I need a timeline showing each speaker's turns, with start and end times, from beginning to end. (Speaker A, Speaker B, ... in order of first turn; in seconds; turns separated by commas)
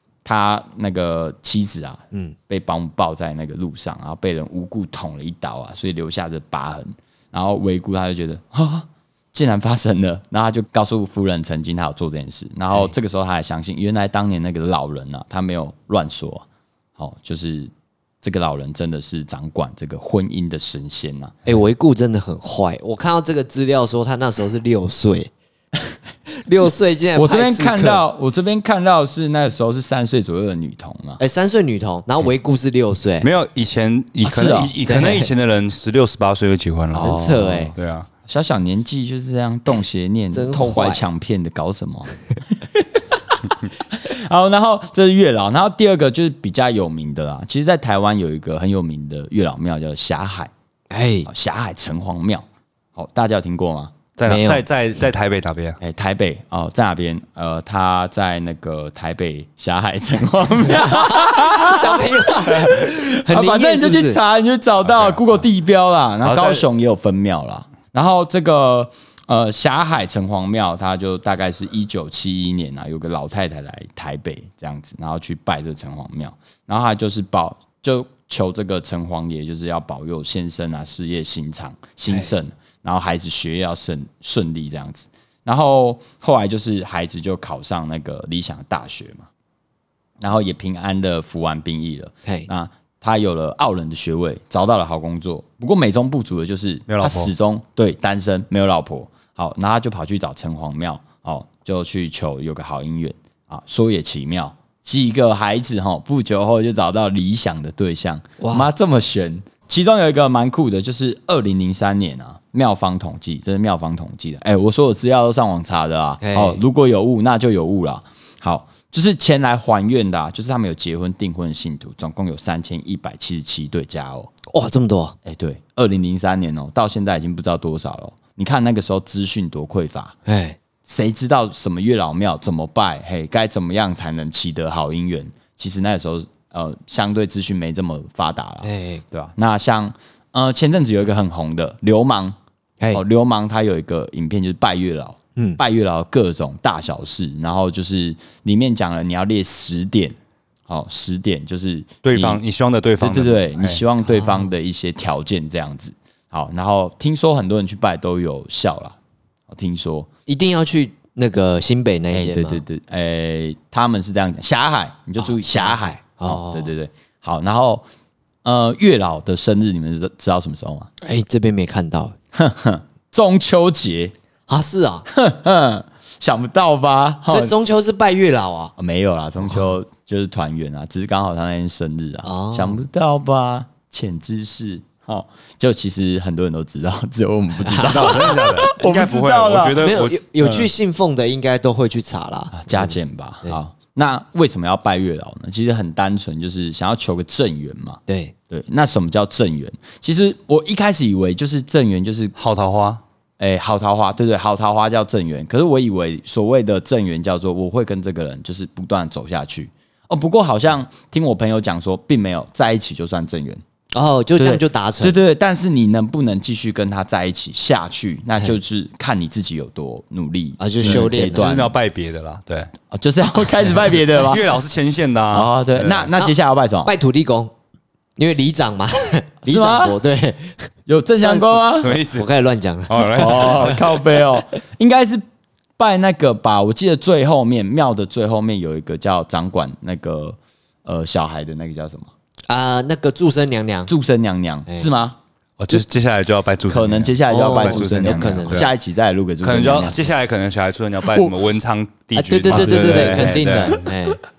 Speaker A: 0.2-16.4, Speaker A: 17.0-17.7, Speaker A: 18.2-21.3, Speaker B: 21.4-25.3, Speaker B: 26.4-28.0, Speaker A: 27.1-31.2, Speaker B: 31.2-33.3, Speaker C: 33.2-38.1, Speaker A: 34.2-34.7, Speaker B: 34.9-35.3, Speaker A: 36.9-50.5, Speaker B: 37.0-37.7, Speaker B: 40.3-41.0, Speaker B: 50.9-51.3, Speaker A: 51.2-54.0, Speaker C: 54.1-55.8, Speaker B: 54.3-54.6, Speaker A: 55.8-89.3, Speaker B: 60.7-64.2, Speaker C: 64.8-65.2, Speaker C: 66.2-66.7, Speaker A: 90.2-124.3, Speaker C: 96.9-97.3, Speaker B: 108.4-108.7, Speaker B: 116.2-116.6, Speaker B: 124.5-125.2, Speaker A: 125.2-130.2, Speaker B: 130.2-130.6, Speaker A: 130.8-142.4, Speaker B: 138.6-139.0, Speaker A: 142.9-150.1, Speaker A: 150.7-152.4, Speaker C: 152.0-153.8, Speaker A: 153.0-159.0, Speaker B: 154.1-154.4, Speaker A: 159.5-160.1, Speaker B: 160.3-162.6, Speaker A: 162.1-167.8, Speaker B: 165.2-166.7, Speaker A: 168.4-170.9, Speaker B: 171.0-172.2, Speaker A: 172.3-174.1, Speaker B: 174.5-175.1, Speaker A: 175.1-177.5, Speaker B: 177.3-178.7, Speaker A: 178.8-190.7, Speaker B: 182.2-182.8, Speaker B: 187.7-188.3, Speaker C: 187.8-190.2, Speaker B: 189.8-193.6, Speaker A: 192.5-202.3, Speaker B: 198.1-198.3, Speaker C: 202.4-203.0, Speaker A: 203.4-213.6, Speaker B: 213.9-215.2, Speaker A: 214.4-221.7, Speaker B: 220.6-221.5, Speaker C: 220.8-222.7, Speaker A: 222.9-224.6, Speaker C: 223.9-226.1, Speaker A: 225.3-226.9, Speaker B: 226.8-227.5, Speaker B: 228.2-230.7, Speaker A: 229.4-230.0, Speaker A: 230.9-231.9, Speaker B: 231.2-231.6, Speaker C: 231.7-232.3, Speaker B: 232.1-233.8, Speaker C: 232.9-233.8, Speaker A: 233.2-235.2, Speaker A: 235.8-242.1, Speaker B: 242.5-243.9, Speaker A: 243.9-245.2, Speaker C: 245.6-248.7, Speaker A: 246.7-250.1, Speaker B: 247.3-248.7, Speaker C: 249.4-253.9, Speaker A: 251.1-251.3, Speaker B: 252.1-254.2, Speaker A: 252.5-253.4